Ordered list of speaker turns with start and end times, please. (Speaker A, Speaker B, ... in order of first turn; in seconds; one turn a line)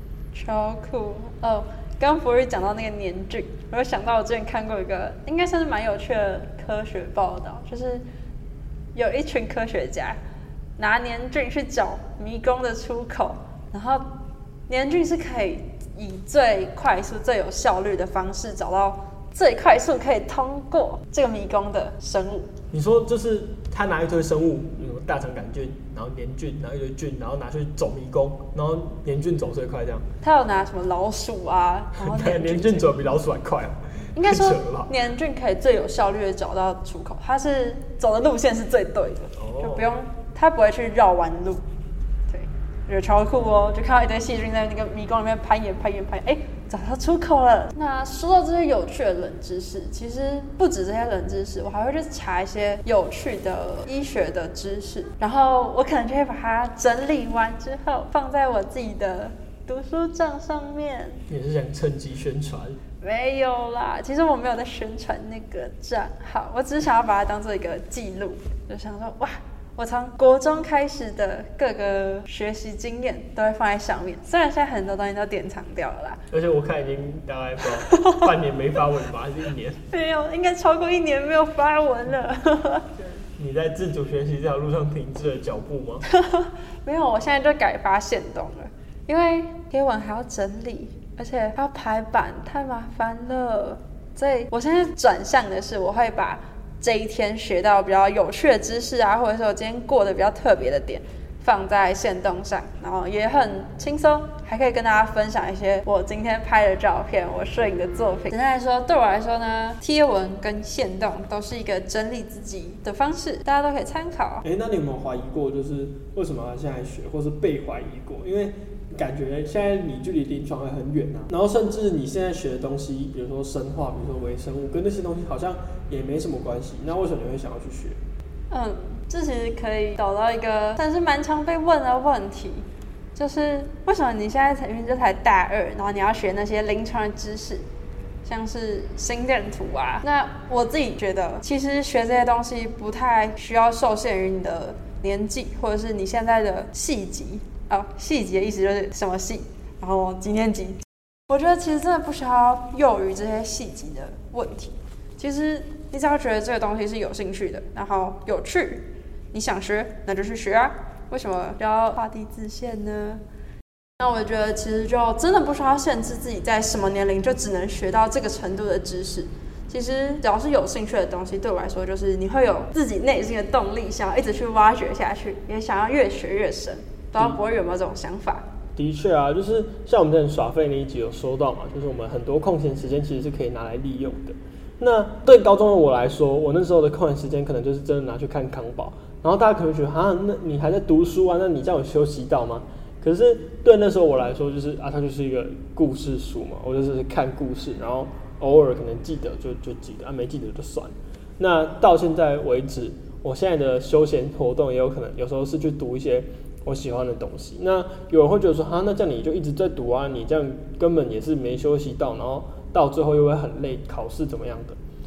Speaker A: 0.3-8.0
Speaker A: 8.9-10.2
Speaker A: 10.8-14.1
Speaker A: 14.7-22.5
Speaker B: 22.7-30.1
Speaker A: 30.2-32.9
Speaker B: 31.9-34.9
Speaker A: 34.1-41.6
Speaker B: 39.4-39.9
Speaker A: 42.3-61.2
Speaker B: 61.3-62.8
Speaker A: 63.0-76.2
Speaker B: 76.3-79.8
Speaker A: 77.9-78.3
Speaker A: 79.9-82.9
Speaker B: 83.0-86.0
Speaker A: 86.1-114.4
Speaker B: 114.4-128.0
Speaker A: 128.5-137.7
Speaker A: 138.2-163.2
Speaker A: 164.0-178.5
Speaker B: 178.8-214.8